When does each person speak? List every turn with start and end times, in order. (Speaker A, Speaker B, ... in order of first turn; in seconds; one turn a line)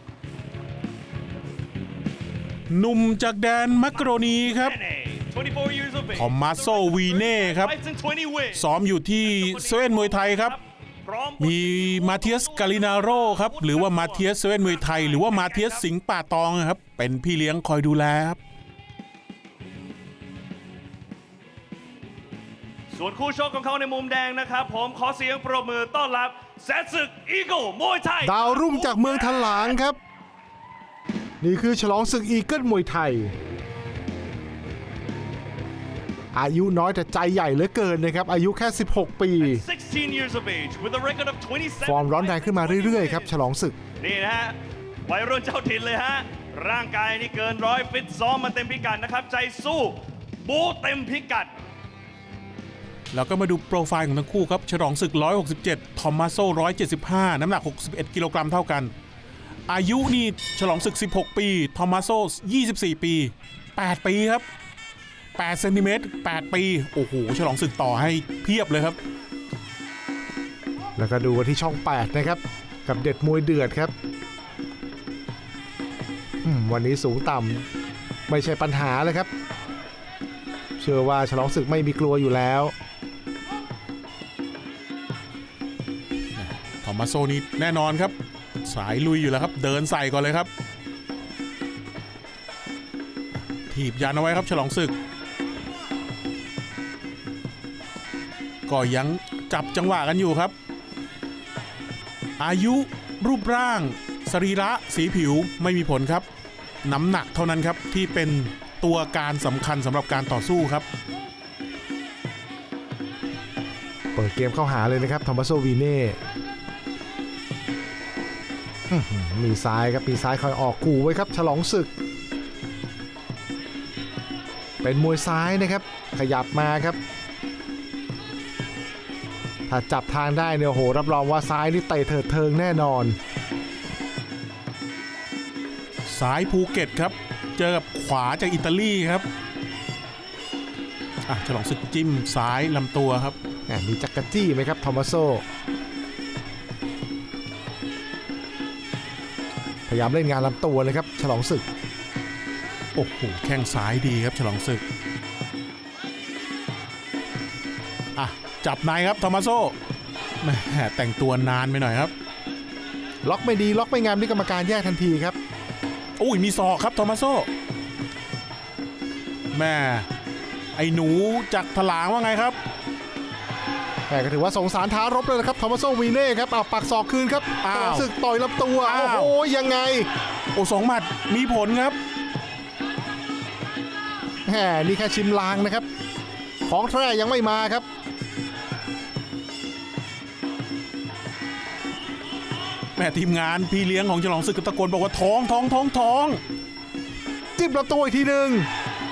Speaker A: 2.7-4.8
Speaker B: 3.9-8.7
Speaker A: 6.2-7.7
Speaker A: 8.5-10.6
Speaker B: 9.2-15.9
Speaker A: 11.4-18.4
Speaker B: 22.9-29.8
Speaker C: 28.2-30.0
Speaker C: 31.4-33.3
Speaker C: 36.3-39.6
Speaker B: 39.4-43.4
Speaker C: 41.8-43.8
Speaker B: 44.0-51.5
Speaker A: 53.1-58.9
Speaker A: 59.7-64.5
Speaker A: 65.4-69.0
Speaker C: 71.0-73.9
Speaker C: 76.4-77.7
Speaker C: 78.3-79.3
Speaker C: 80.8-82.7
Speaker A: 86.4-90.5
Speaker A: 93.7-94.9
Speaker A: 98.7-100.5
Speaker A: 102.4-106.3
Speaker A: 106.8-110.8
Speaker C: 114.2-116.2
Speaker C: 118.9-121.9
Speaker C: 124.8-127.0
Speaker C: 129.7-133.2
Speaker A: 136.0-139.3
Speaker A: 141.3-143.4
Speaker C: 143.7-145.4
Speaker C: 149.9-151.7
Speaker A: 152.9-154.8
Speaker A: 158.2-159.8
Speaker A: 160.4-162.1
Speaker C: 163.2-165.4
Speaker A: 166.2-167.5
Speaker A: 169.5-170.1
Speaker A: 170.8-172.6
Speaker C: 174.1-180.1
Speaker A: 177.6-178.1
Speaker A: 178.8-179.4
Speaker A: 180.6-182.0
Speaker C: 184.5-185.9
Speaker C: 186.7-187.8
Speaker A: 193.0-196.4
Speaker C: 197.6-198.7